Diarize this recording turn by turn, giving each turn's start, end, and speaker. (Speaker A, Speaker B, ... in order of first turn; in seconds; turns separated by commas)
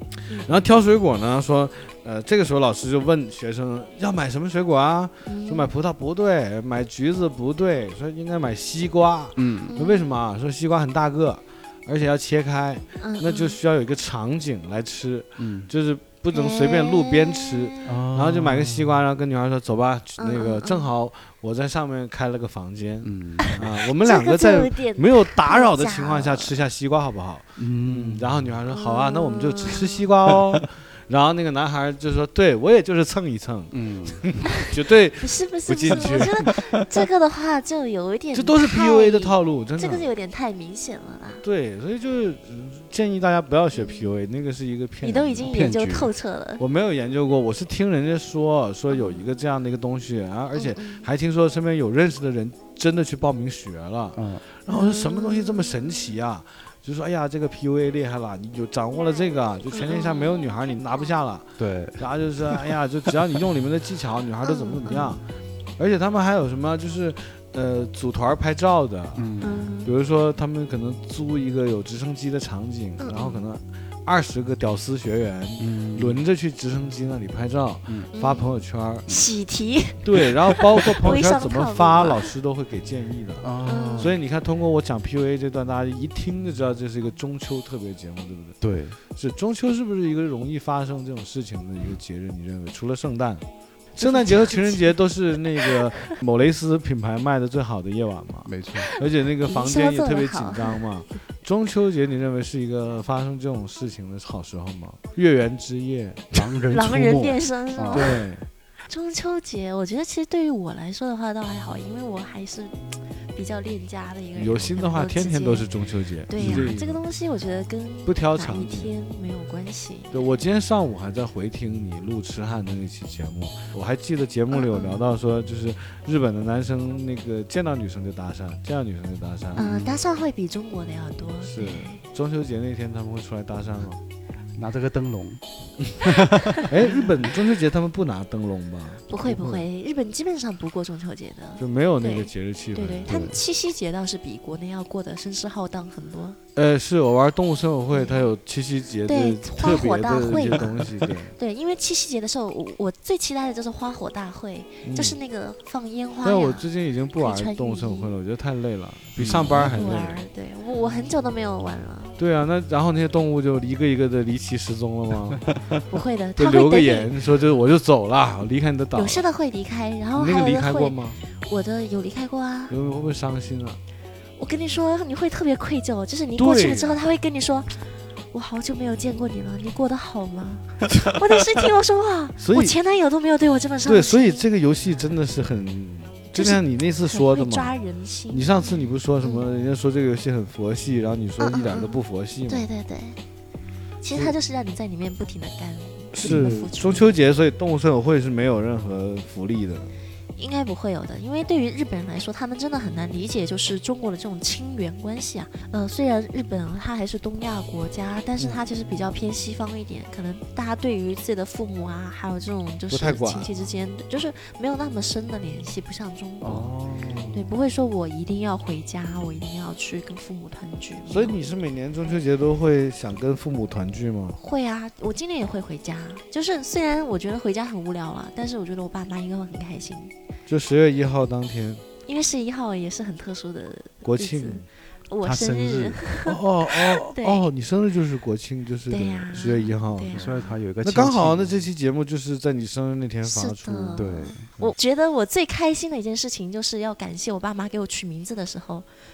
Speaker A: 0.3-0.7, Speaker B: 0.4-36.6, Speaker A: 5.3-5.7, Speaker C: 9.4-9.7, Speaker A: 9.7-10.2, Speaker A: 13.0-13.6, Speaker C: 15.4-15.7, Speaker A: 16.3-18.0, Speaker C: 17.9-19.1, Speaker A: 20.2-20.9, Speaker C: 23.0-23.6, Speaker A: 23.5-26.6, Speaker C: 27.6-28.6, Speaker A: 28.7-30.1, Speaker C: 33.7-34.4, Speaker A: 35.2-41.5, Speaker C: 35.9-36.8, Speaker B: 38.3-40.1, Speaker B: 41.4-45.5, Speaker A: 43.7-44.1, Speaker A: 45.0-46.6, Speaker C: 45.5-46.1, Speaker B: 46.6-65.2, Speaker A: 48.9-49.3, Speaker A: 50.5-51.1, Speaker C: 54.1-54.4, Speaker A: 54.7-56.2, Speaker A: 59.7-60.5, Speaker C: 61.6-62.8, Speaker A: 64.4-65.2, Speaker B: 65.8-69.3, Speaker C: 69.2-69.7, Speaker A: 69.4-69.9, Speaker B: 69.8-79.1, Speaker A: 73.0-73.5, Speaker C: 75.6-76.2, Speaker A: 78.1-82.3, Speaker B: 80.0-83.5, Speaker C: 83.4-84.2, Speaker A: 83.7-84.2, Speaker B: 84.0-88.6, Speaker C: 88.6-89.0, Speaker B: 89.1-93.5, Speaker A: 94.0-94.9, Speaker B: 94.0-106.4, Speaker C: 98.5-98.9, Speaker A: 98.8-100.8, Speaker C: 106.3-108.2, Speaker A: 106.7-108.3, Speaker B: 107.9-108.5, Speaker A: 108.9-115.7, Speaker B: 114.4-117.0, Speaker A: 116.3-120.5, Speaker C: 116.4-116.8, Speaker B: 118.1-118.9, Speaker B: 120.1-129.9, Speaker A: 124.5-125.2, Speaker A: 129.6-132.0, Speaker B: 131.4-134.0, Speaker C: 134.6-135.4, Speaker C: 135.9-137.0, Speaker B: 136.7-139.7, Speaker A: 139.1-146.4, Speaker B: 141.6-143.1, Speaker C: 143.1-143.4, Speaker B: 146.6-151.3, Speaker A: 147.9-148.3, Speaker A: 149.1-156.7, Speaker B: 154.8-155.2, Speaker B: 156.2-160.2, Speaker A: 157.2-158.1, Speaker C: 159.2-159.7, Speaker A: 159.5-162.2, Speaker B: 162.2-165.8, Speaker A: 165.9-167.1, Speaker B: 166.4-169.2, Speaker A: 168.9-172.8, Speaker B: 170.2-171.2, Speaker B: 172.7-173.8, Speaker A: 174.4-177.8, Speaker B: 176.4-177.0, Speaker A: 178.3-184.5, Speaker B: 182.4-182.8, Speaker B: 183.9-187.7, Speaker A: 186.4-189.5, Speaker B: 188.3-192.7, Speaker A: 191.4-193.2, Speaker A: 194.0-197.1, Speaker B: 196.1-199.9, Speaker C: 196.2-196.6, Speaker A: 200.4-216.7, Speaker B: 208.4-208.6, Speaker B: 212.9-213.5, Speaker C: 216.4-217.5, Speaker A: 217.3-221.4, Speaker B: 221.1-224.4, Speaker A: 224.4-230.1, Speaker B: 230.5-231.8, Speaker A: 232.1-237.5, Speaker B: 234.0-234.6, Speaker C: 235.2-236.0, Speaker B: 236.2-240.2, Speaker A: 238.9-240.5, Speaker C: 240.1-241.7, Speaker B: 240.8-244.1, Speaker A: 243.2-248.8, Speaker C: 244.0-244.5